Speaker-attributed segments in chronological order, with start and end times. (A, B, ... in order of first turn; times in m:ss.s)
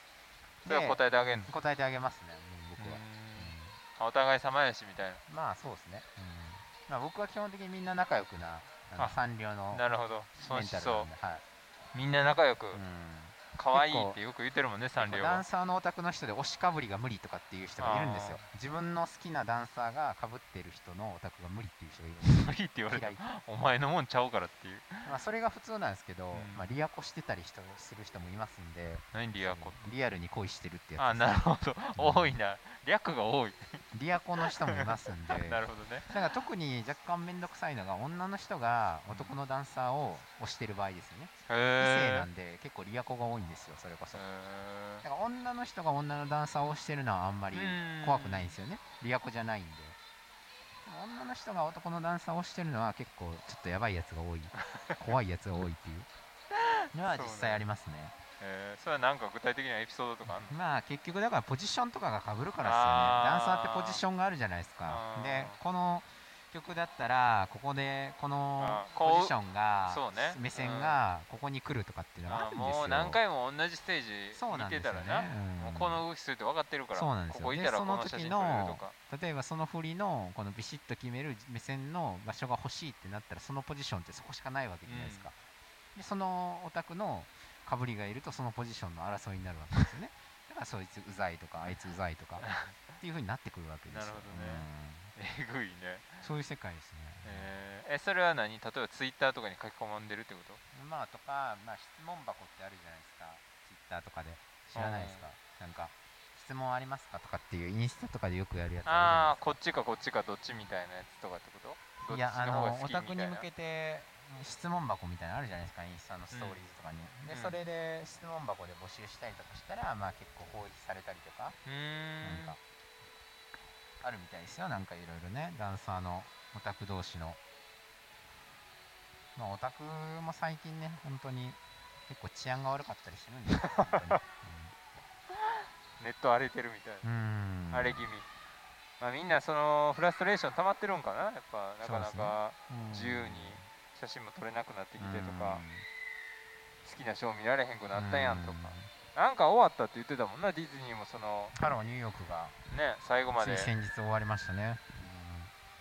0:00.6-0:03.8 A
0:00.7-0:01.5 B
0:02.8-0:05.2 B
0:05.3-0:09.8 A
0:09.7-0:11.1 B
0:10.4-0:11.4 A
0:11.9-0:12.8 B
0:12.7-0:14.2 A
0:13.6-0:15.4 B
0:15.0-0:23.2 A
0:17.8-0:18.5 B
0:22.2-0:25.1 B
0:25.0-0:31.4 A
0:26.3-0:26.6 B
0:29.1-0:29.8 B
0:31.0-0:33.8 B
0:32.0-0:32.4 A
0:33.9-0:44.2 A
0:34.4-0:36.1 B
0:41.5-0:42.3 B
0:44.1-0:45.0 B
0:45.0-0:50.0 A
0:47.5-0:48.6 B
0:50.8-0:56.1 A
0:54.6-0:55.1 B
0:56.5-0:57.6 B
0:56.9-0:58.2 A
0:58.4-1:00.5 B
1:00.3-1:13.2 A
1:02.6-1:04.0 B
1:04.9-1:05.6 B
1:08.6-1:09.3 B
1:09.9-1:11.0 B
1:12.3-1:19.0 B
1:14.3-1:16.0 A
1:16.9-1:25.4 A
1:24.9-1:25.3 B
1:26.0-1:35.1 A
1:32.4-1:32.8 B
1:33.9-1:36.2 B
1:36.2-1:37.5 A
1:37.2-1:40.6 B
1:40.7-1:49.6 A
1:44.7-1:45.2 B
1:48.8-1:53.5 B
1:52.1-2:01.6 A
1:56.3-1:56.6 B
1:57.3-1:57.6 B
2:01.7-2:02.6 B
2:02.2-2:02.6 A
2:04.0-2:07.4 A
2:09.4-2:14.8 A
2:13.5-2:14.2 B
2:16.0-2:17.1 B
2:17.0-2:18.0 A
2:17.7-2:18.3 B
2:19.0-2:25.6 B
2:21.8-2:23.7 A
2:25.0-2:25.9 A
2:26.8-2:31.6 B
2:28.0-2:28.9 A
2:31.6-2:32.6 A
2:32.7-2:33.7 B
2:33.4-2:35.5 A